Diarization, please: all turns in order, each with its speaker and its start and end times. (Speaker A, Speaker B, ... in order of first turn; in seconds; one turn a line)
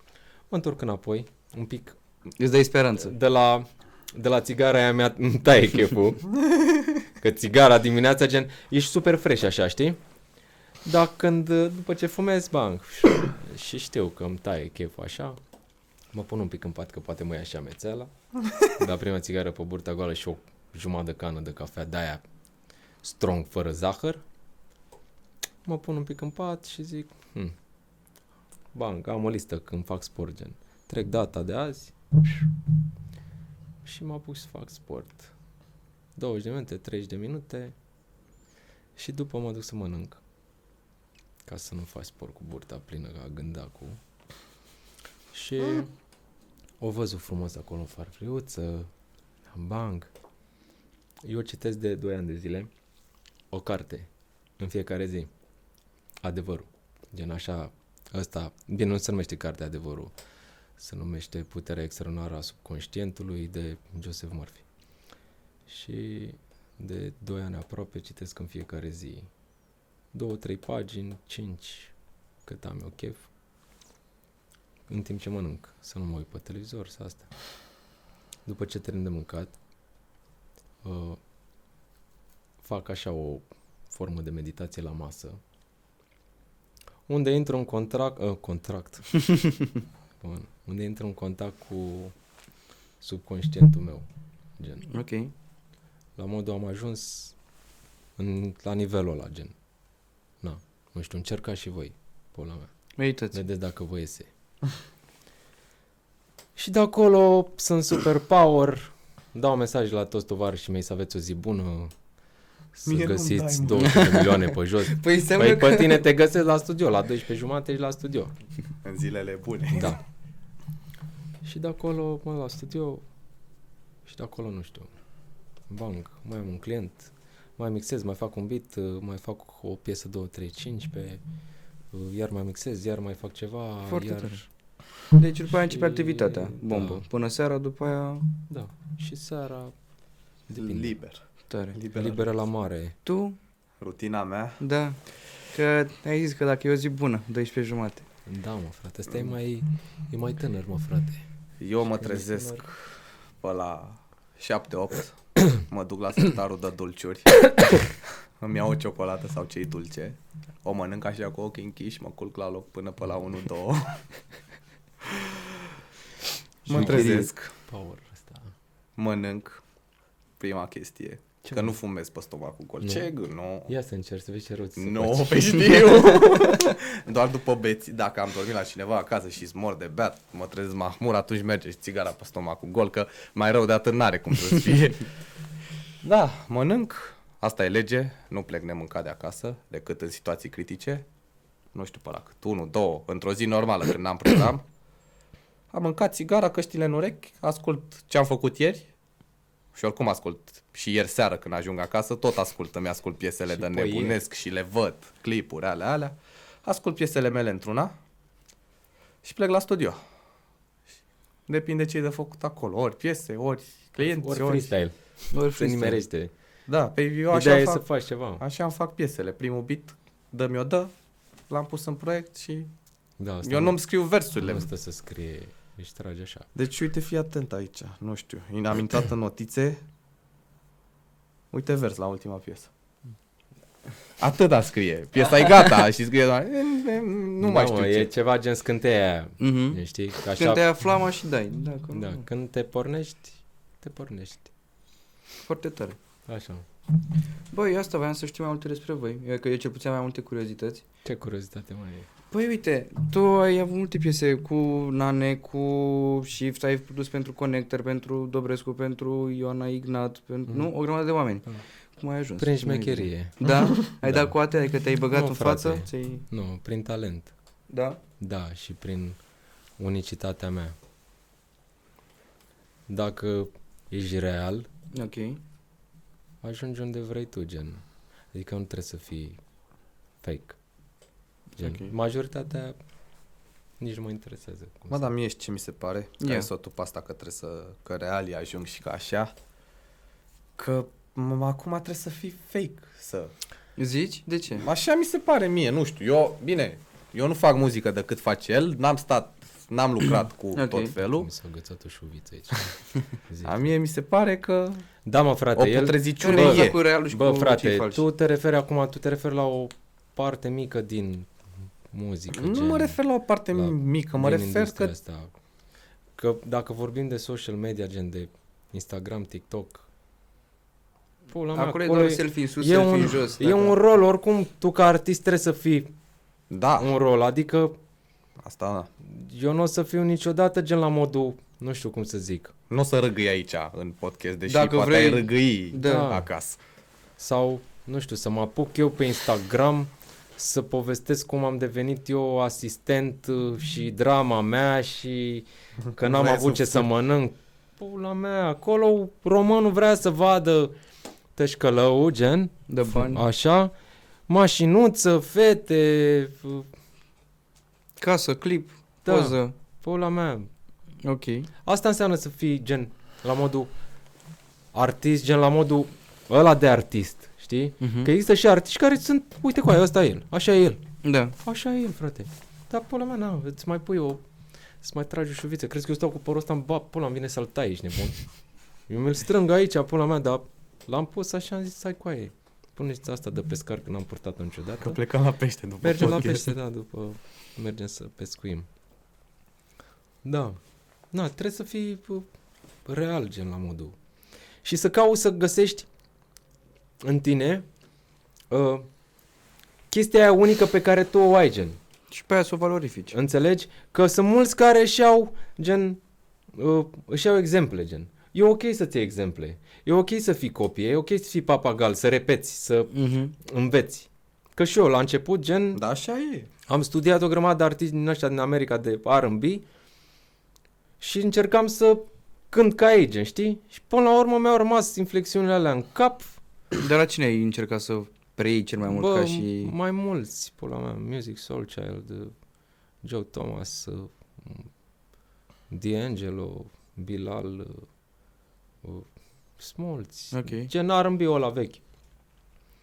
Speaker A: 0.5-2.0
Speaker B: 2.4-3.1
Speaker A: 3.0-6.4
Speaker A: 7.2-10.0
Speaker A: 10.8-15.4
Speaker A: 16.1-18.1
Speaker A: 18.6-22.2
Speaker A: 23.0-24.2
Speaker A: 25.6-27.6
Speaker A: 28.7-31.9
Speaker A: 33.8-35.3
Speaker A: 36.2-37.7
Speaker A: 39.0-40.2
Speaker A: 41.5-44.0
Speaker A: 45.3-45.9
Speaker A: 46.8-48.9
Speaker A: 49.5-50.1
Speaker A: 51.2-52.7
Speaker A: 53.5-55.3
Speaker A: 56.2-60.1
Speaker A: 60.8-64.6
Speaker A: 65.7-69.3
Speaker A: 70.1-71.9
Speaker A: 72.5-73.3
Speaker A: 74.9-77.3
Speaker A: 78.5-79.5
Speaker A: 80.8-81.2
Speaker A: 82.6-85.4
Speaker A: 87.1-89.5
Speaker A: 90.2-92.1
Speaker A: 93.0-94.9
Speaker B: 94.9-95.3
Speaker A: 96.2-97.3
Speaker A: 98.2-99.5
Speaker A: 100.4-102.7
Speaker B: 103.0-103.4
Speaker A: 103.3-104.3
Speaker A: 106.6-111.9
Speaker A: 112.7-118.3
Speaker C: 112.9-114.4
Speaker B: 113.8-116.0
Speaker C: 118.8-120.0
Speaker A: 119.7-120.0
Speaker A: 121.4-123.0
Speaker A: 124.0-124.9
Speaker A: 125.7-131.2
Speaker A: 131.9-134.4
Speaker B: 133.9-134.4
Speaker B: 135.1-138.3
Speaker A: 135.6-137.1
Speaker A: 138.5-139.7
Speaker A: 140.5-140.9
Speaker C: 140.6-142.2
Speaker B: 141.5-141.8
Speaker A: 141.9-143.0
Speaker B: 143.1-143.4
Speaker C: 143.8-144.6
Speaker B: 144.6-148.1
Speaker A: 148.3-151.2
Speaker C: 151.6-152.9
Speaker A: 151.8-152.7
Speaker C: 153.4-164.0
Speaker C: 165.1-165.6
Speaker B: 166.7-167.3
Speaker C: 166.7-167.5
Speaker A: 166.7-168.5
Speaker C: 169.0-169.6
Speaker C: 170.4-173.7
Speaker A: 171.5-171.7
Speaker A: 172.8-173.1
Speaker A: 173.7-176.2
Speaker C: 174.8-185.1
Speaker C: 186.0-191.1
Speaker C: 191.7-194.6
Speaker C: 195.7-198.9
Speaker C: 199.8-207.9
Speaker A: 203.5-204.2
Speaker C: 209.2-210.0
Speaker C: 211.5-214.7
Speaker A: 214.0-216.3
Speaker B: 215.3-216.1
Speaker C: 216.7-217.8
Speaker A: 217.3-218.4
Speaker C: 218.4-220.9
Speaker C: 221.5-222.7
Speaker A: 223.2-223.8
Speaker C: 223.4-224.7
Speaker A: 224.4-226.5
Speaker C: 226.6-229.8
Speaker C: 231.5-232.7
Speaker C: 234.2-238.1
Speaker A: 237.4-240.7
Speaker B: 239.4-242.2
Speaker A: 241.9-244.5
Speaker B: 245.4-246.0
Speaker A: 246.3-246.7
Speaker B: 247.5-250.8
Speaker A: 251.1-252.1
Speaker B: 252.3-266.2
Speaker A: 262.4-264.4
Speaker A: 265.1-267.3
Speaker B: 267.7-268.0
Speaker A: 268.2-269.2
Speaker A: 269.8-270.8
Speaker A: 272.9-274.7
Speaker B: 274.9-275.4
Speaker A: 276.4-279.4
Speaker A: 280.2-280.6
Speaker A: 281.6-282.8
Speaker B: 281.6-281.9
Speaker A: 283.8-285.1
Speaker C: 284.9-289.3
Speaker B: 286.2-286.5
Speaker C: 290.6-293.3
Speaker B: 293.8-294.7
Speaker C: 294.6-301.3
Speaker B: 300.6-300.9
Speaker A: 301.0-302.7
Speaker A: 303.3-303.7
Speaker C: 303.4-304.9
Speaker A: 305.1-311.3
Speaker C: 305.6-306.8
Speaker B: 306.2-308.0
Speaker A: 311.9-313.0
Speaker C: 312.3-314.9
Speaker A: 313.5-315.4
Speaker A: 316.2-319.9
Speaker A: 321.3-325.9
Speaker B: 321.5-323.8
Speaker C: 326.5-326.9
Speaker A: 326.8-327.8
Speaker C: 328.4-328.9
Speaker A: 329.0-332.5
Speaker C: 332.7-336.6
Speaker B: 334.5-336.1
Speaker A: 335.8-336.3
Speaker A: 337.2-350.8
Speaker C: 345.9-346.9
Speaker A: 351.4-353.7
Speaker B: 352.7-353.2
Speaker A: 354.3-356.7
Speaker B: 358.0-359.5
Speaker A: 359.1-360.5
Speaker B: 361.0-361.5
Speaker A: 361.6-363.7
Speaker A: 364.7-370.8
Speaker B: 367.8-368.1
Speaker B: 371.0-371.4
Speaker A: 371.4-374.2
Speaker A: 374.8-378.2
Speaker A: 378.9-385.0
Speaker C: 384.8-386.5
Speaker A: 385.8-388.7
Speaker A: 390.2-390.6
Speaker A: 391.1-392.3
Speaker A: 392.9-394.0
Speaker A: 394.6-395.9
Speaker A: 397.0-397.6
Speaker A: 398.5-398.9
Speaker A: 399.9-401.8
Speaker B: 402.1-403.2
Speaker A: 403.1-406.0
Speaker A: 406.5-415.8
Speaker B: 412.9-413.4
Speaker C: 415.7-416.5
Speaker A: 416.7-419.6
Speaker A: 421.0-426.4
Speaker B: 426.8-429.7
Speaker A: 428.9-432.3
Speaker A: 433.0-434.7
Speaker A: 435.7-437.9
Speaker A: 438.8-441.8
Speaker B: 440.3-440.7